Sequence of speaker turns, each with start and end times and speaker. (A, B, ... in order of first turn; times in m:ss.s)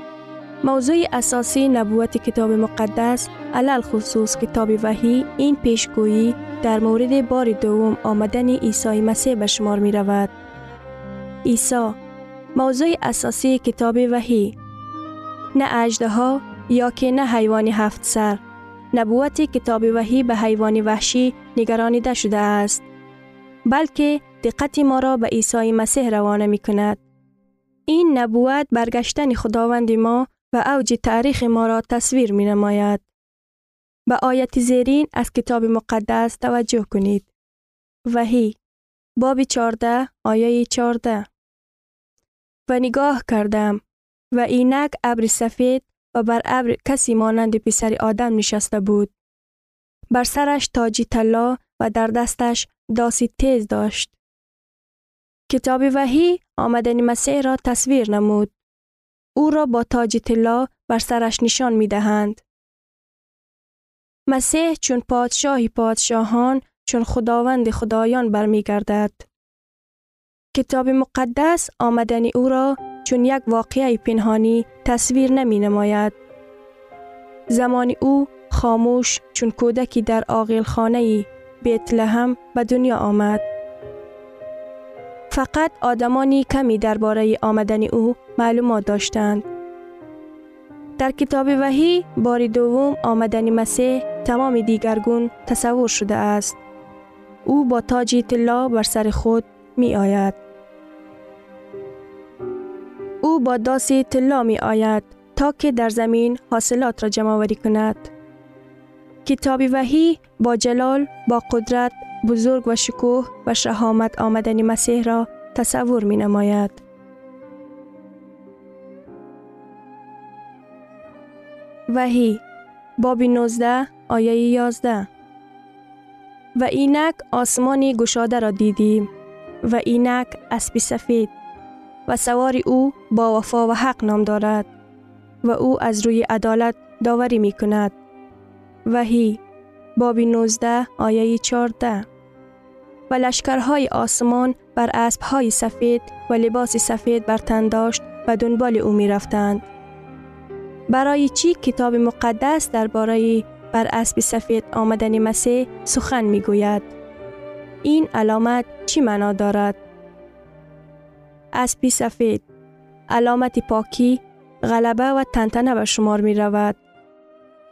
0:00.6-0:10.3 A
0:11.4-0:12.0 A
0:12.6-0:14.6 A
0:15.5-0:18.4 A
0:18.9-0:22.8 A
0:23.7-0:27.0 A
0:27.9-0:33.0 A
0:34.1-0:37.3 A
0:38.1-0:38.6 A
0:39.2-0:41.3 A
0:42.7-0:43.8 A
0:44.3-0:49.1 A
0:50.1-0:54.2 A
0:55.5-0:58.5 A
0:59.4-1:02.4 A
1:04.3-1:09.3 A
1:10.5-1:16.2 A
1:17.5-1:23.5 A
1:25.3-1:29.5 A
1:31.0-1:36.6 A
1:37.5-1:40.4 A
1:43.2-1:48.1 A
1:49.2-1:56.8 A
2:01.9-2:02.4 A
2:03.0-2:05.1 A
2:06.6-2:09.1 A
2:09.6-2:11.3 A
2:12.1-2:14.7 A
2:15.4-2:18.0 A
2:18.9-2:19.4 A
2:20.0-2:22.1 A
2:23.1-2:29.6 A
2:30.9-2:36.9 A
2:37.8-2:39.8 A
2:41.5-2:42.4 A
2:43.1-2:46.8 A